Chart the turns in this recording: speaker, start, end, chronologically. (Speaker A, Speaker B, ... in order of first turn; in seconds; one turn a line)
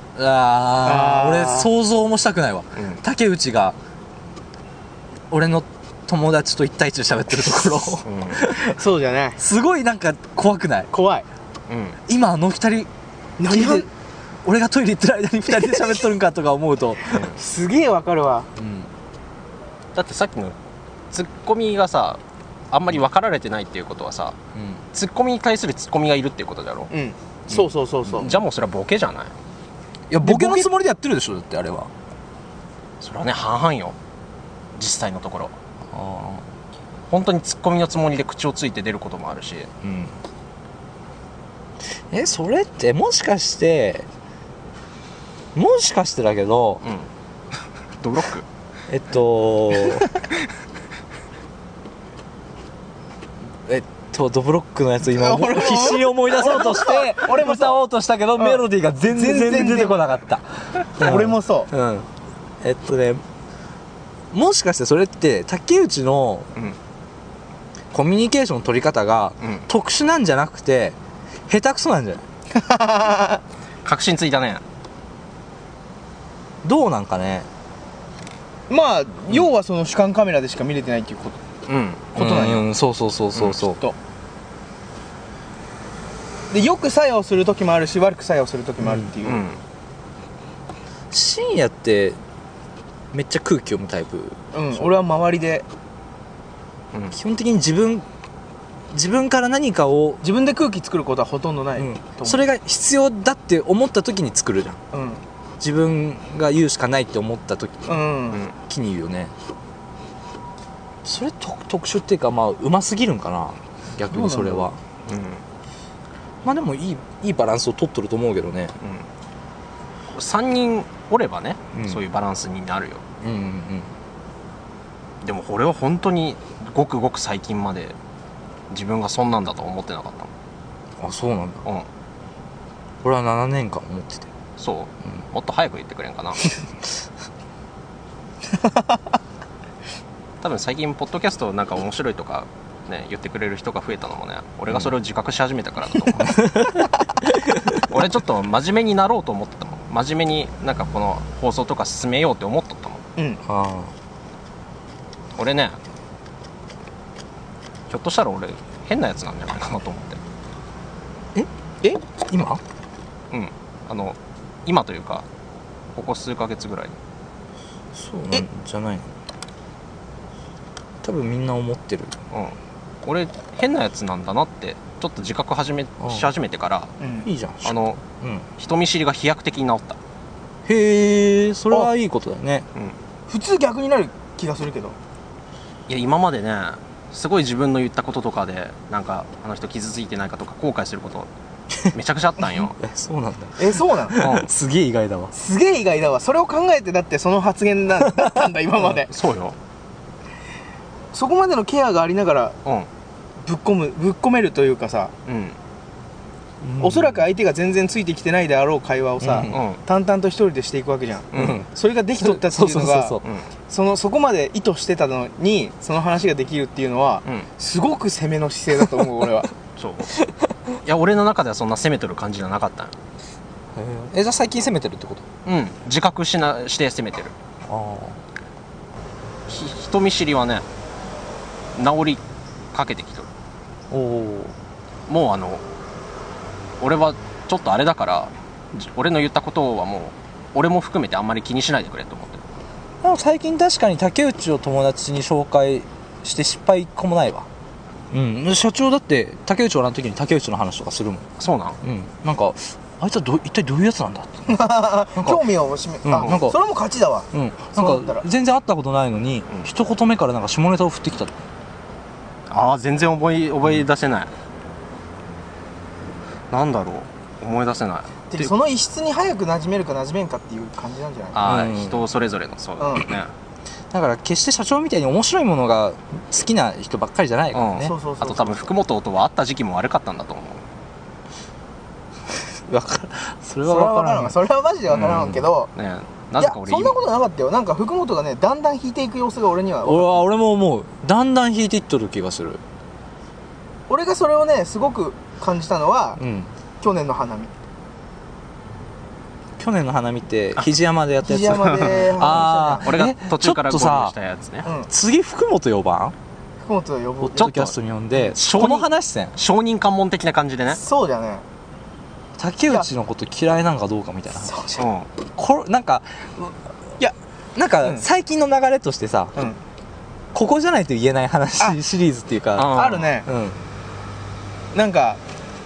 Speaker A: 0.1-3.8
Speaker B: 0.8-1.7
Speaker C: 2.8-3.0
Speaker A: 5.3-8.8
Speaker C: 8.0-8.4
Speaker B: 8.6-9.4
Speaker A: 9.4-10.9
Speaker B: 10.9-11.2
Speaker C: 11.7-12.0
Speaker A: 12.1-12.9
Speaker B: 13.4-13.9
Speaker A: 13.4-13.9
Speaker A: 14.4-17.3
Speaker B: 15.6-15.9
Speaker B: 17.3-18.5
Speaker A: 18.6-18.9
Speaker C: 19.9-20.6
Speaker C: 21.1-22.2
Speaker C: 22.7-24.4
Speaker A: 24.5-24.8
Speaker C: 24.9-26.9
Speaker B: 26.9-28.4
Speaker C: 28.1-29.3
Speaker A: 30.1-31.9
Speaker B: 30.2-30.7
Speaker C: 33.0-34.0
Speaker C: 34.8-35.5
Speaker A: 35.9-36.4
Speaker C: 37.1-39.7
Speaker A: 39.8-40.2
Speaker A: 41.9-44.1
Speaker A: 45.5-46.8
Speaker C: 46.8-47.1
Speaker C: 48.0-48.5
Speaker A: 48.9-50.1
Speaker A: 53.6-62.1
Speaker B: 55.0-57.8
Speaker B: 58.4-60.0
Speaker B: 61.0-61.7
Speaker A: 62.6-63.2
Speaker A: 64.3-66.5
Speaker A: 67.9-71.0
Speaker A: 71.5-72.2
Speaker B: 72.5-73.4
Speaker C: 73.8-74.6
Speaker A: 76.6-77.5
Speaker B: 78.7-81.4
Speaker C: 81.7-82.1
Speaker B: 82.1-82.7
Speaker A: 82.1-83.8
Speaker C: 83.3-83.6
Speaker B: 86.5-89.4
Speaker A: 88.8-89.1
Speaker C: 89.2-89.6
Speaker A: 91.1-92.2
Speaker A: 93.1-94.8
Speaker B: 94.5-95.6
Speaker A: 97.1-98.0
Speaker A: 98.9-100.2
Speaker B: 100.2-102.4
Speaker A: 101.8-104.8
Speaker B: 104.9-105.2
Speaker A: 105.6-109.3
Speaker B: 107.9-108.4
Speaker A: 111.0-114.8
Speaker B: 114.1-114.7
Speaker C: 115.0-115.4
Speaker A: 116.4-118.7
Speaker C: 118.8-119.0
Speaker C: 120.1-123.0
Speaker A: 121.7-122.0
Speaker A: 123.2-123.9
Speaker C: 125.2-128.0
Speaker C: 128.7-130.3
Speaker A: 131.0-131.6
Speaker A: 133.0-134.3
Speaker C: 134.6-136.4
Speaker C: 140.4-146.3
Speaker A: 146.2-147.8
Speaker C: 147.8-153.0
Speaker A: 153.4-153.9
Speaker C: 155.3-155.8
Speaker C: 157.9-160.2
Speaker A: 162.2-162.6
Speaker C: 163.3-165.2
Speaker C: 165.9-166.9
Speaker A: 167.9-169.1
Speaker A: 171.0-172.2
Speaker C: 172.3-176.9
Speaker A: 176.0-176.3
Speaker B: 177.0-177.3
Speaker A: 177.2-178.4
Speaker C: 177.6-178.0
Speaker C: 178.6-180.0
Speaker A: 180.6-182.7
Speaker B: 183.3-185.0
Speaker C: 185.9-191.3
Speaker C: 191.8-192.7
Speaker A: 192.5-195.3
Speaker B: 193.6-194.2
Speaker C: 194.2-194.5
Speaker B: 195.3-199.1
Speaker C: 198.8-199.6
Speaker B: 201.1-202.6
Speaker B: 203.4-205.1
Speaker C: 205.3-205.6
Speaker A: 206.6-207.2
Speaker B: 206.8-213.2
Speaker A: 209.2-209.6
Speaker C: 209.5-209.8
Speaker C: 211.3-211.6
Speaker A: 211.3-213.2
Speaker B: 213.7-219.5
Speaker C: 219.8-220.1
Speaker C: 220.8-222.9
Speaker A: 223.7-225.2
Speaker C: 225.4-227.3
Speaker A: 227.7-228.2
Speaker C: 229.5-230.6
Speaker C: 231.7-232.2
Speaker C: 232.7-233.3
Speaker A: 233.9-234.5
Speaker C: 235.1-235.6
Speaker C: 236.8-242.4
Speaker A: 243.0-247.5
Speaker A: 248.1-251.3
Speaker C: 251.4-251.8
Speaker A: 251.8-255.5
Speaker B: 254.5-258.2
Speaker A: 256.0-256.6
Speaker A: 257.3-261.4
Speaker C: 262.5-264.3
Speaker C: 266.5-268.5
Speaker B: 268.3-271.4
Speaker C: 271.3-273.3
Speaker A: 271.4-272.1
Speaker B: 272.8-273.1
Speaker A: 273.9-277.9
Speaker C: 277.5-280.6
Speaker B: 277.8-278.7
Speaker A: 282.5-284.4
Speaker B: 283.6-285.7
Speaker C: 284.9-287.0
Speaker A: 284.9-285.4
Speaker B: 286.4-290.1
Speaker A: 289.8-292.6
Speaker B: 293.9-296.2
Speaker A: 296.2-296.5
Speaker B: 296.8-297.5
Speaker A: 299.6-304.1
Speaker B: 301.2-302.9
Speaker C: 301.6-304.7
Speaker B: 304.6-304.9
Speaker A: 304.9-306.1
Speaker B: 306.6-307.7
Speaker A: 307.2-309.3
Speaker C: 307.4-307.7
Speaker C: 308.3-310.8
Speaker B: 310.7-311.4
Speaker A: 312.4-314.7
Speaker B: 314.4-314.8
Speaker C: 314.8-315.1
Speaker A: 315.3-316.6
Speaker A: 317.5-319.4
Speaker A: 320.3-323.6
Speaker C: 322.5-323.1
Speaker B: 322.7-323.3
Speaker B: 324.7-325.2